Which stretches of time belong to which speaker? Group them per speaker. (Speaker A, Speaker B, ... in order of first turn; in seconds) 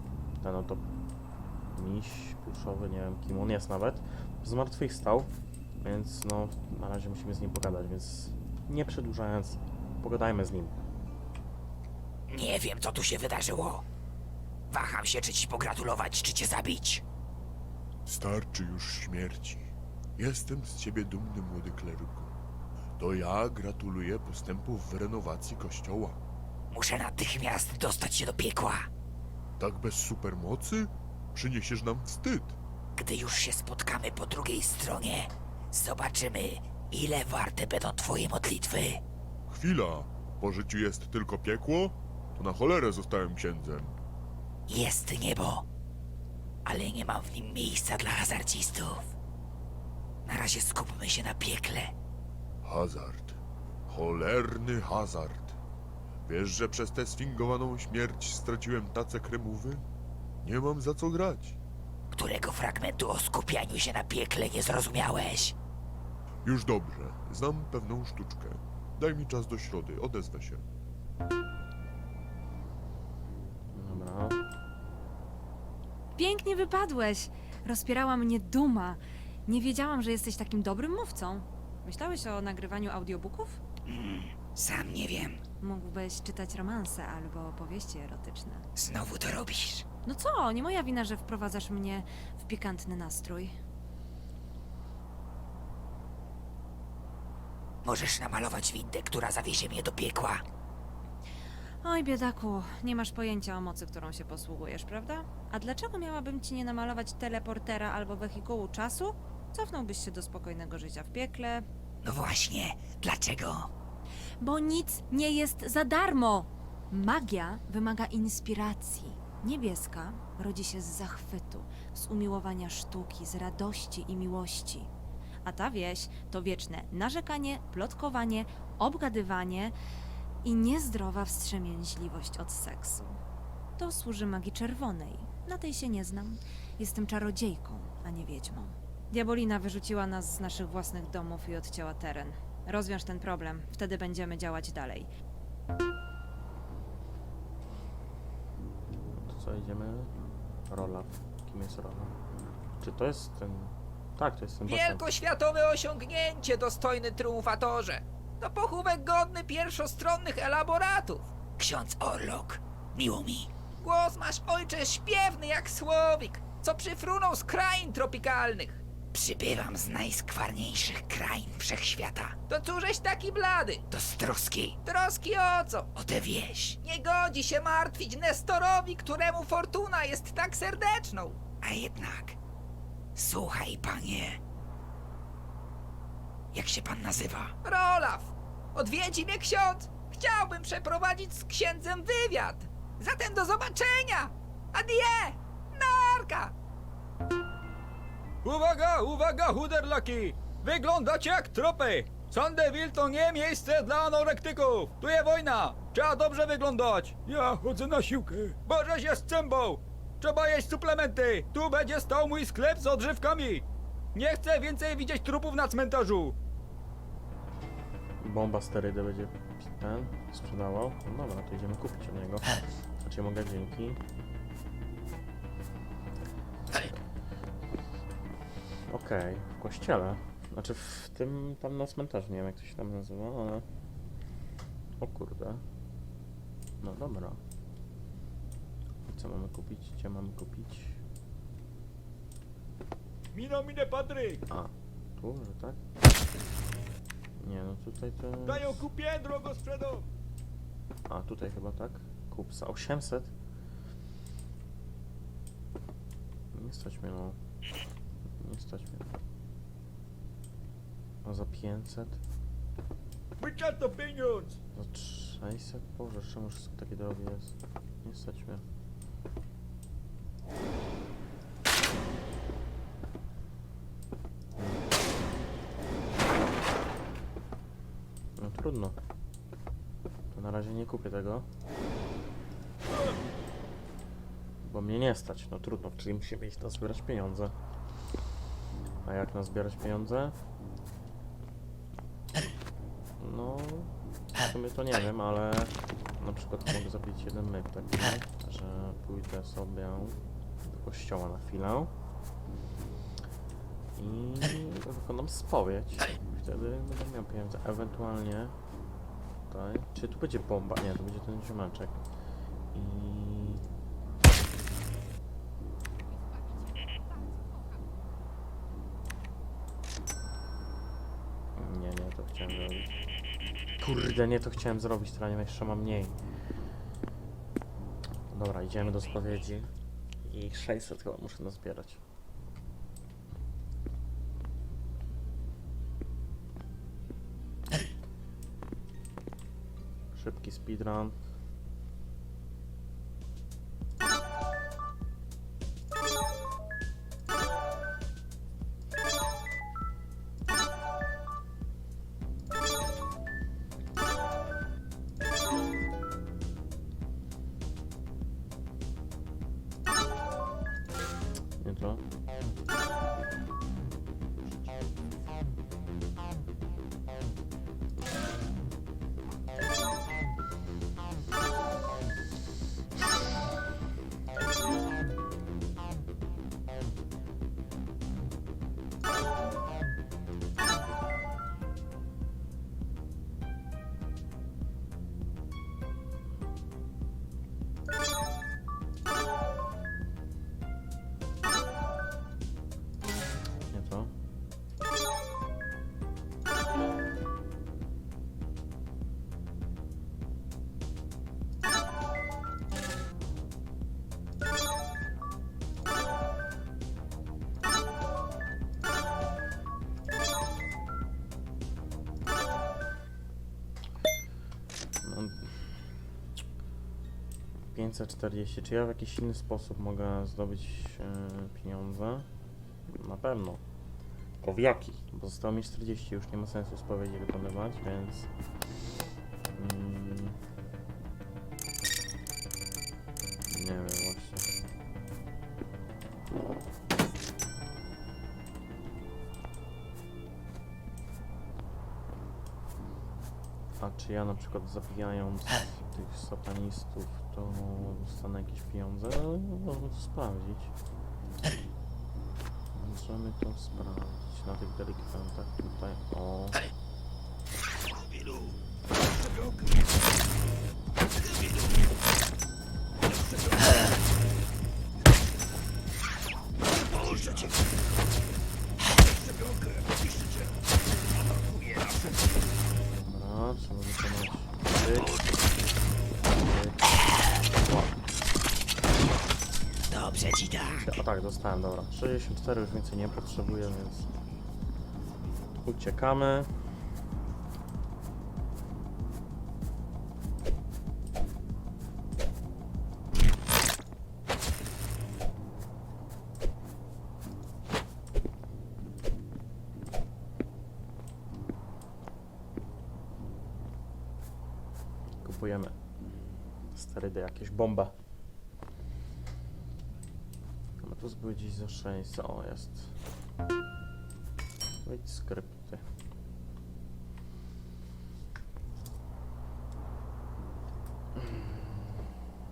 Speaker A: 0.4-0.8, 1.7-5.3, 5.8-10.7, 73.7-74.4, 149.1-150.1, 150.7-152.2, 152.8-155.0, 218.2-224.0, 228.9-233.7, 235.0-235.6, 236.8-237.4, 239.0-241.0, 244.5-245.8, 247.4-248.8, 251.1-253.3, 256.5-257.4, 258.4-259.2, 261.2-262.2, 264.7-268.6, 274.6-274.8, 278.4-279.0, 280.3-281.4, 284.6-287.6, 289.0-290.4, 293.2-293.9, 294.4-301.9, 303.9-308.5, 309.5-312.0, 312.7-313.6, 321.6-322.9, 323.8-326.2, 328.3-329.7, 330.2-332.0, 340.1-341.1, 361.6-362.0, 393.7-394.1, 415.0-415.7, 417.7-422.3, 422.9-423.6, 424.4-428.3, 429.5-430.4, 433.5-434.5, 443.8-450.7, 452.7-456.6, 472.8-475.2, 476.3-478.0, 480.8-484.1, 485.6-486.5, 505.2-505.8, 506.7-507.9, 510.8-512.9, 514.8-515.8, 521.1-522.0
Speaker B: 12.3-13.8, 14.7-17.0, 26.7-28.9, 33.0-39.0, 44.7-45.7, 46.6-49.1, 50.2-51.9, 62.1-65.5, 83.8-85.4, 88.8-89.8, 97.8-100.4, 112.0-113.7, 161.6-163.5, 169.1-172.4, 173.9-174.8, 175.9-176.8, 181.6-182.4, 183.1-184.4, 186.5-187.5, 466.9-467.5, 479.9-480.9
Speaker C: 18.0-22.3, 23.0-26.2, 29.6-32.6, 39.5-44.0, 52.6-55.6, 56.2-59.9, 60.4-61.6, 66.4-70.6
Speaker D: 76.2-83.6, 85.6-88.7, 90.0-93.5, 101.8-111.7, 114.4-124.9, 125.4-129.8, 130.4-133.2, 133.8-145.1
Speaker E: 154.7-161.3, 163.8-168.8, 172.5-173.8, 174.8-175.9, 176.8-181.4, 187.6-196.5
Speaker F: 198.4-216.4, 243.3-244.4, 248.4-250.1, 263.4-264.6